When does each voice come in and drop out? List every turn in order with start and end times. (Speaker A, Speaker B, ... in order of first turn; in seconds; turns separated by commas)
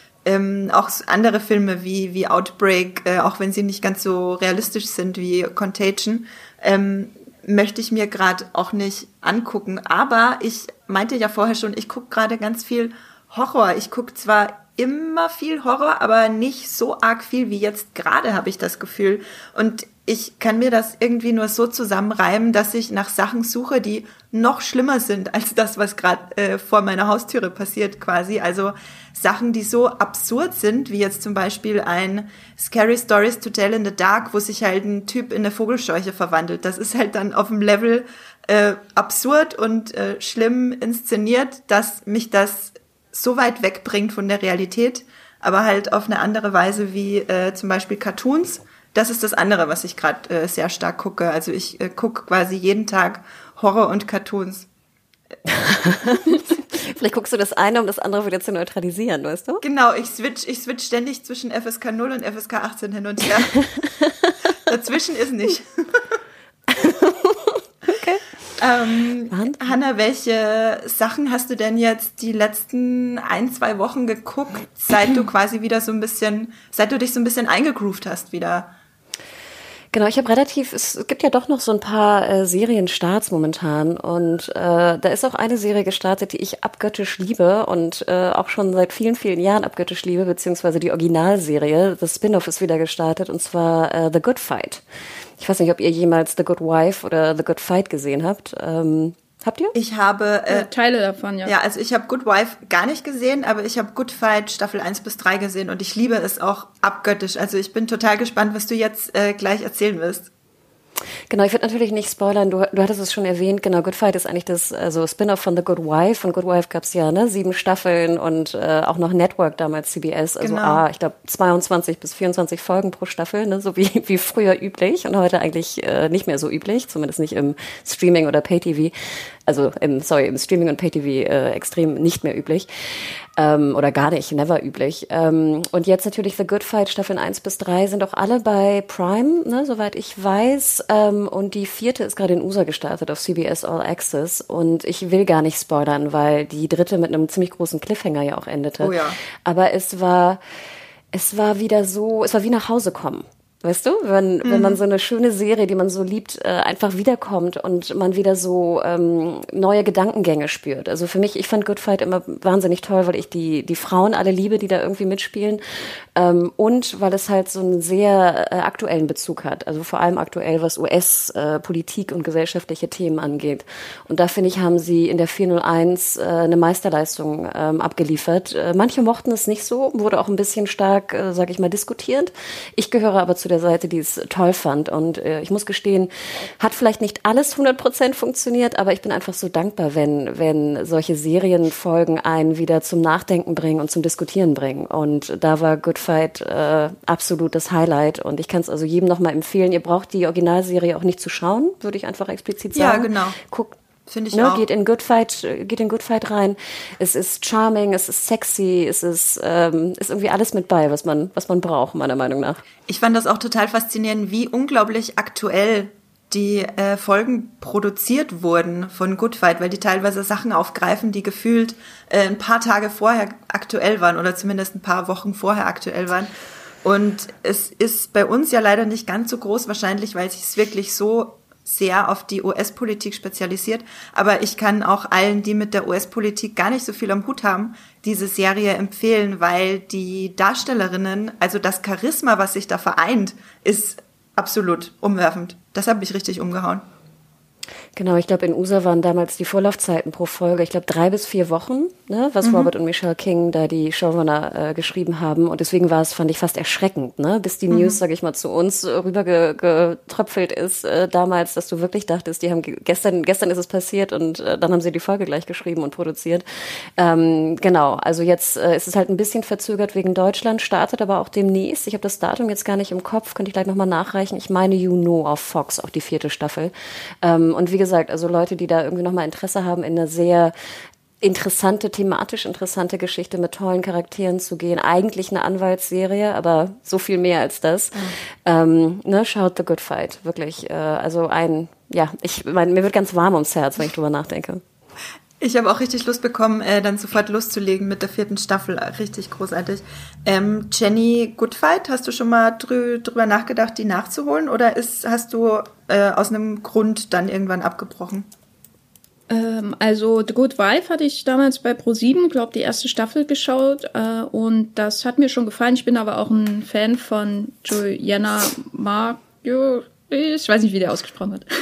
Speaker A: 0.2-54.7, Speaker B: 55.6-59.6, Speaker A: 59.6-63.6, Speaker A: 64.7-66.0, Speaker B: 66.7-68.2, Speaker A: 68.6-78.7, Speaker B: 69.3-69.6, Speaker B: 79.9-94.8, Speaker B: 95.4-99.7, Speaker A: 99.7-100.7, Speaker C: 100.5-101.5, Speaker A: 101.4-110.3, Speaker B: 111.3-128.9, Speaker A: 120.4-120.8, Speaker B: 129.5-132.7, Speaker B: 133.4-150.4, Speaker A: 148.8-149.2, Speaker B: 151.1-165.6, Speaker A: 154.4-154.8, Speaker B: 166.2-203.8, Speaker A: 202.7-203.4, Speaker A: 204.1-204.6, Speaker B: 204.3-212.6, Speaker A: 212.9-226.3, Speaker A: 226.8-246.8, Speaker B: 247.9-266.4, Speaker A: 252.4-252.7, Speaker A: 257.7-258.0, Speaker B: 267.0-280.5, Speaker B: 281.2-294.6, Speaker A: 295.4-308.3, Speaker C: 309.3-321.5